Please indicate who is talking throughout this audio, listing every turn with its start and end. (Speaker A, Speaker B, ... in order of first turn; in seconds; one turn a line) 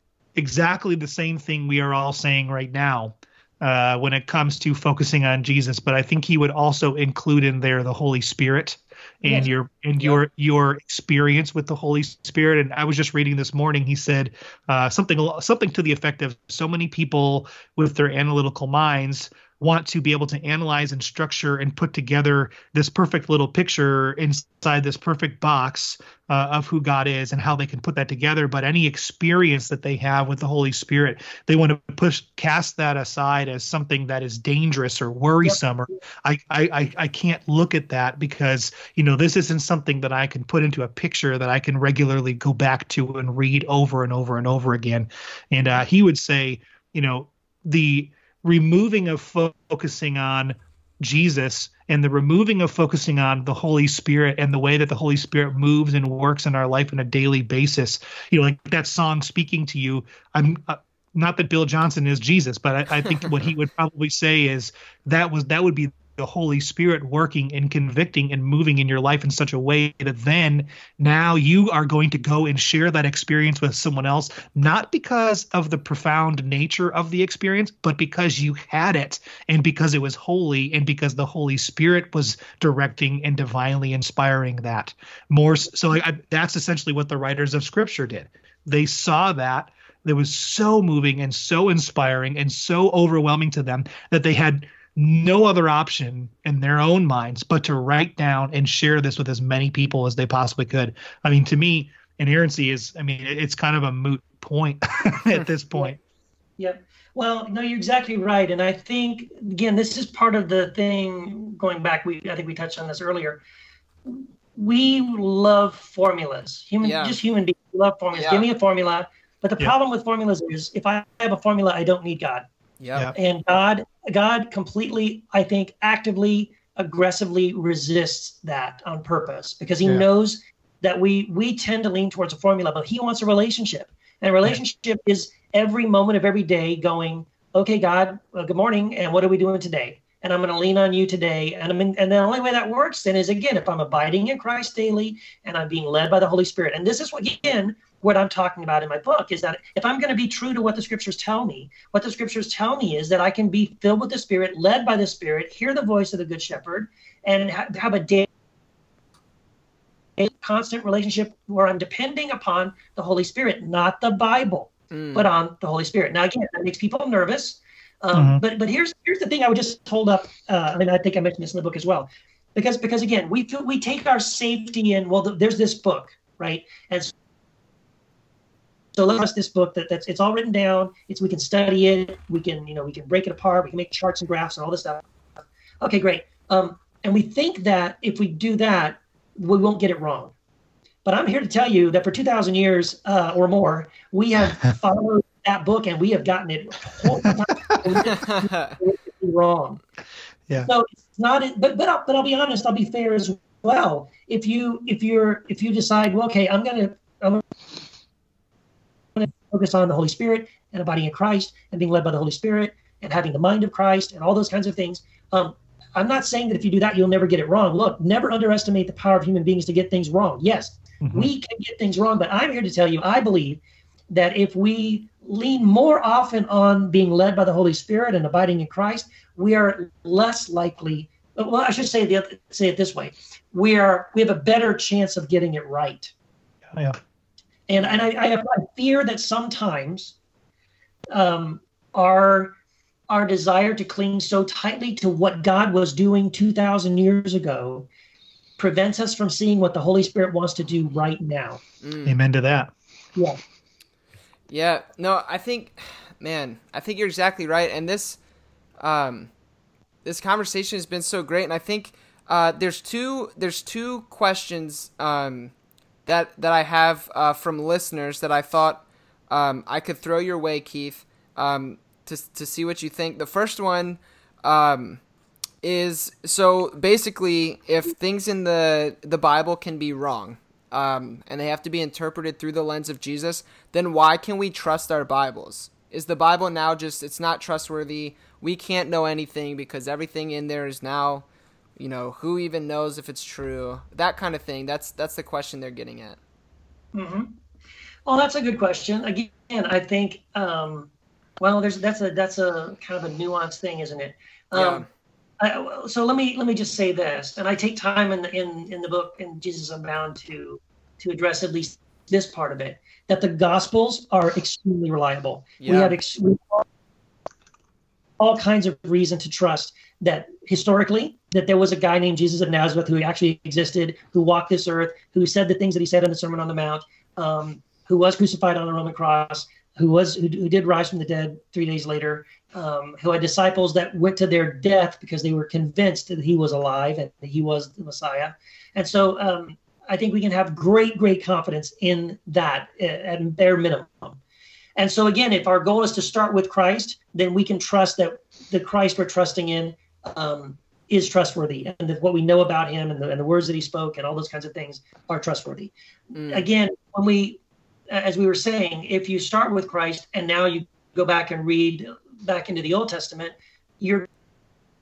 Speaker A: 0.3-106.0
Speaker B: 9.2-9.5
Speaker B: 106.6-113.4
Speaker B: 114.0-122.5
Speaker C: 116.8-117.2
Speaker C: 118.1-118.5
Speaker C: 122.8-123.1
Speaker B: 123.1-158.3
Speaker B: 160.2-177.1
Speaker C: 164.9-165.2
Speaker A: 168.1-168.4
Speaker B: 178.9-185.0
Speaker B: 185.8-190.3
Speaker B: 191.0-199.8
Speaker C: 198.1-198.7
Speaker B: 200.6-207.4
Speaker B: 209.2-236.1
Speaker A: 221.0-221.3
Speaker B: 237.7-240.1
Speaker B: 241.1-242.5
Speaker B: 243.1-247.9
Speaker B: 248.6-251.6
Speaker C: 251.8-252.2
Speaker A: 252.0-252.7
Speaker C: 254.5-258.2
Speaker C: 258.8-259.3
Speaker C: 260.0-265.5
Speaker C: 266.1-275.0
Speaker C: 275.6-291.2
Speaker C: 291.8-296.2
Speaker B: 296.9-297.3
Speaker B: 298.1-304.8
Speaker C: 304.5-304.9
Speaker B: 305.4-316.6
Speaker C: 315.6-315.9
Speaker B: 318.2-344.2
Speaker B: 344.8-355.7
Speaker C: 356.1-356.4
Speaker B: 356.3-364.1